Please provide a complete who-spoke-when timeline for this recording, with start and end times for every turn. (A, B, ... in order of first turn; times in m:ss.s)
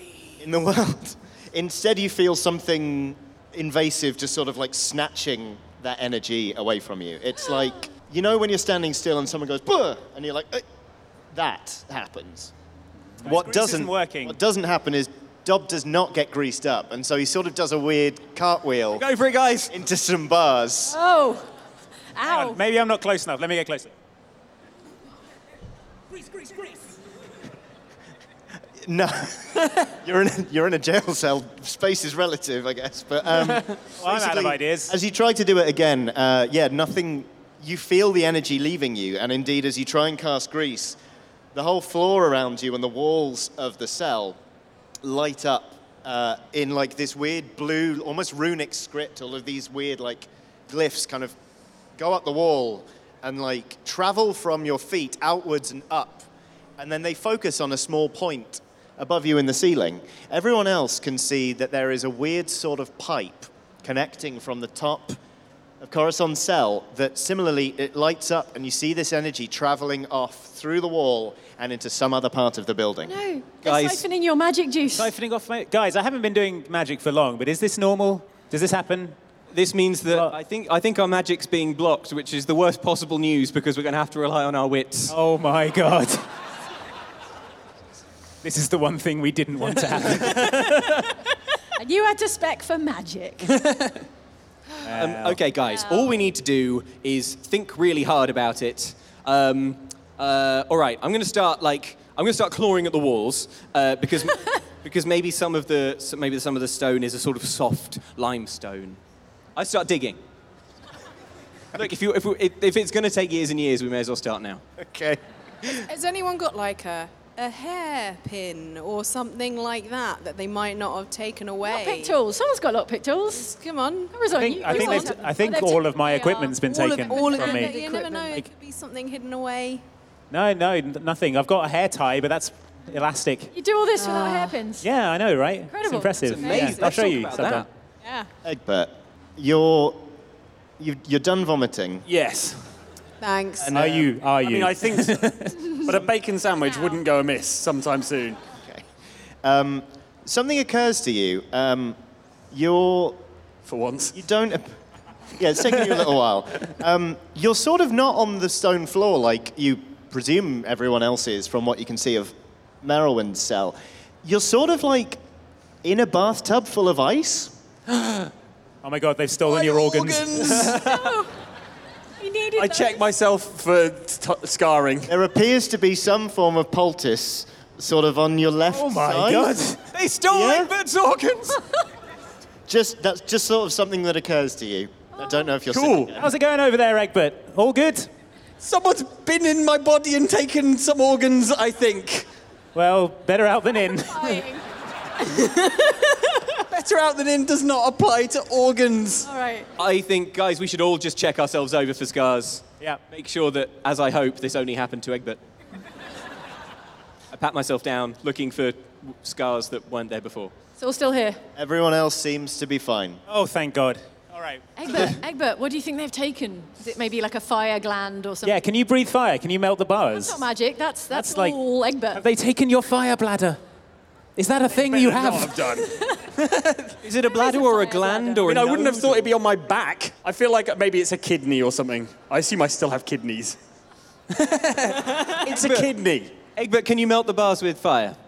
0:00.4-0:10.6 A
0:11.3-0:12.5 A
0:13.2-0:14.4 B
0:13.2-0:19.0 A
0:19.0-0:19.7 C
0:19.7-0:21.0 A
0:20.8-0:21.5 D
0:22.1-0:22.6 D
0:22.2-0:23.9 B
0:26.2-0:26.8 B
0:28.8-0:41.0 A
0:34.0-0:35.0 B
0:41.5-0:44.4 A
0:45.0-0:51.4 A
0:52.0-1:05.2 A
1:05.8-1:13.1 A
1:13.1-1:15.1 D
1:13.6-1:14.0 C
1:14.9-1:19.2 B
1:19.5-1:25.1 C
1:25.1-1:26.3 B
1:28.4-1:30.9 B
1:31.7-1:33.6 D
1:34.8-1:35.4 B
1:34.9-1:49.0 C
1:35.6-1:36.3 D
1:49.6-1:50.2 C
1:51.7-1:54.6 C
1:54.8-1:55.9 A
1:55.8-2:02.2 E
2:01.6-2:03.5 D
2:03.3-2:05.2 E
2:04.1-2:08.4 D
2:04.3-2:07.8 B
2:06.6-2:09.8 E
2:10.3-2:13.5 B
2:13.5-2:14.9 D
2:14.0-2:14.6 E
2:14.8-2:17.7 B
2:15.7-2:16.3 D
2:16.2-2:17.7 C
2:18.0-2:18.3 E
2:18.4-2:20.1 A
2:20.8-2:22.0 A
2:22.1-2:22.7 F
2:23.2-2:23.7 E
2:23.7-2:28.4 F
2:23.7-2:25.9 B
2:28.6-2:28.8 A
2:29.4-2:32.0 A
2:32.5-2:33.2 A
2:33.6-2:34.2 F
2:34.1-2:34.8 A
2:35.4-2:45.2 A
2:45.8-2:47.5 A
2:48.0-2:48.3 F
2:48.8-2:50.8 B
2:50.1-2:50.7 F
2:50.5-2:51.3 D
2:52.2-2:53.0 D
2:52.6-2:55.1 F
2:55.1-2:59.5 A
2:58.7-2:59.9 B
2:59.9-3:01.6 C
3:00.3-3:00.7 A
3:02.7-3:06.3 A
3:05.7-3:06.1 F
3:06.2-3:08.1 B
3:08.6-3:12.3 F
3:12.7-3:14.4 B
3:14.0-3:14.6 D
3:15.7-3:15.9 E
3:16.6-3:19.3 F
3:19.2-3:19.7 D
3:19.8-3:25.4 C
3:27.3-3:30.5 C
3:30.8-3:31.4 D
3:31.6-3:33.2 A
3:33.3-3:35.1 B
3:34.8-3:38.6 D
3:38.4-3:40.4 B
3:40.1-3:42.2 D
3:41.1-3:41.6 B
3:42.1-3:43.6 B
3:44.4-3:45.6 B
3:44.7-3:46.9 F
3:45.8-3:46.2 D
3:47.0-3:49.3 C
3:47.2-3:48.5 D
3:48.4-3:53.6 F
3:54.3-3:56.3 F
3:55.1-3:55.9 C
3:56.6-3:58.2 C